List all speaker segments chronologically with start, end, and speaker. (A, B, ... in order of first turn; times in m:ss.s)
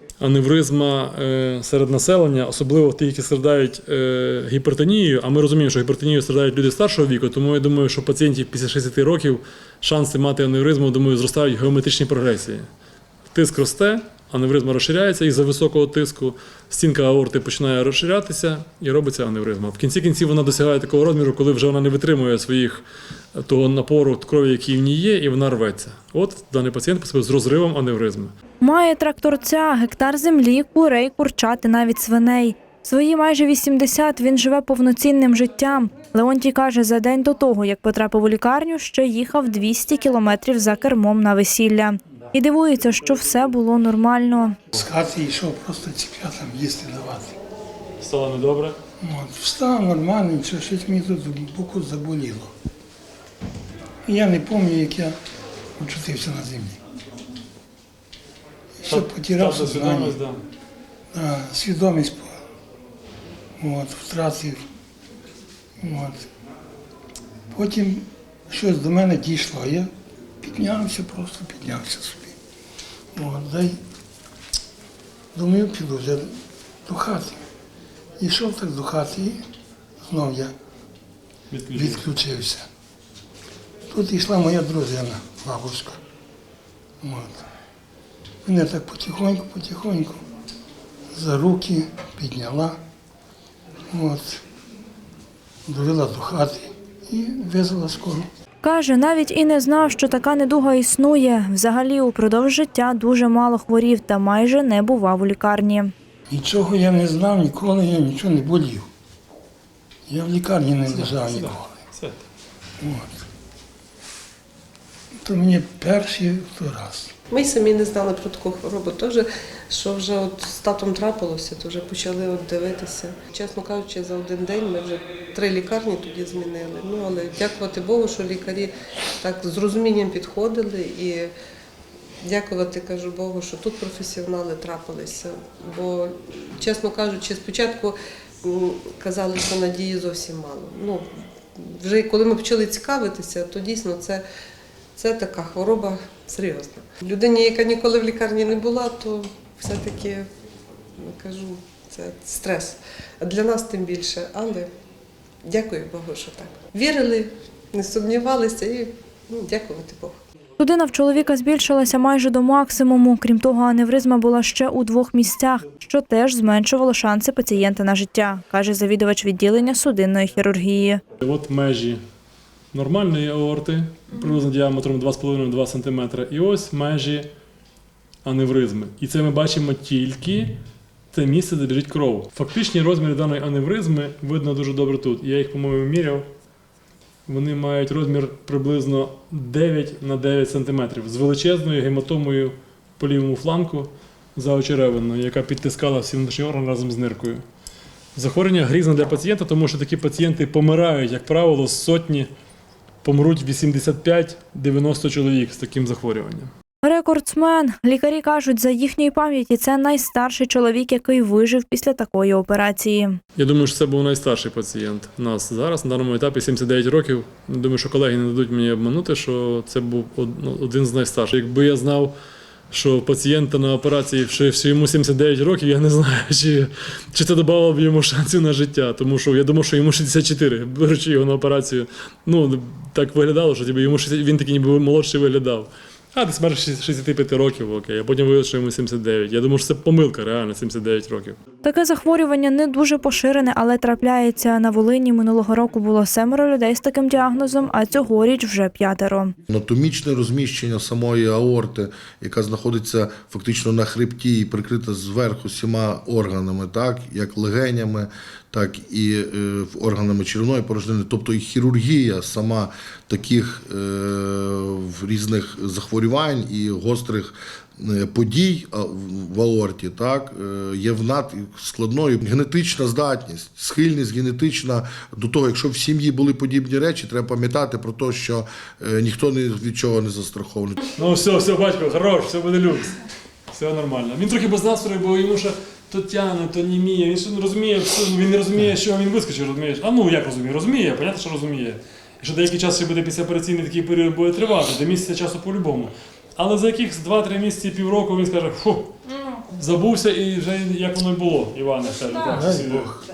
0:00.2-0:12.6 A
0:13.3-0:28.3 A
0:28.6-0:44.6 B
0:44.7-0:47.4 C
0:48.0-0:48.8 A
0:49.0-0:52.5 C
0:54.0-0:55.2 C
0:55.8-0:56.8 C
0:58.8-1:00.2 C
0:58.8-1:00.4 A
1:01.1-1:02.4 C
1:03.6-1:04.6 C
1:05.8-1:06.3 C
1:07.5-1:09.9 C
1:10.4-1:12.4 C
1:13.1-1:13.8 C
1:15.3-1:16.3 C
1:16.8-1:17.4 C
1:18.2-1:19.4 C
1:20.0-1:20.5 C
1:21.5-1:22.1 A
1:21.7-1:22.7 C
1:23.9-1:26.0 C
1:27.0-1:27.5 C
1:28.4-1:30.2 C
1:31.1-1:32.8 C
1:33.9-1:34.4 C
1:35.7-1:38.3 C
1:38.6-1:45.9 B
1:46.3-1:48.9 C
1:50.1-1:51.7 C
1:50.8-1:52.2 A
1:52.8-1:53.2 C
1:55.2-1:57.1 C
1:57.3-2:11.3 D
2:12.2-2:24.2 D
2:25.0-2:30.3 D
2:31.0-2:34.7 D
2:35.4-2:40.2 D
2:40.6-2:51.0 B
2:51.2-2:52.0 A
2:52.7-2:57.3 A
2:58.2-3:00.6 A
3:01.1-3:06.3 A
3:07.2-3:17.4 A
3:18.1-3:22.3 A
3:23.0-3:26.5 A
3:26.8-3:33.2 B
3:33.4-3:42.1 A
3:42.7-4:01.4 A
4:01.6-4:09.3 B
4:09.5-4:40.8 E
4:41.0-4:43.0 A
4:43.5-4:58.9 A
4:59.5-5:03.0 A
5:02.4-5:02.8 C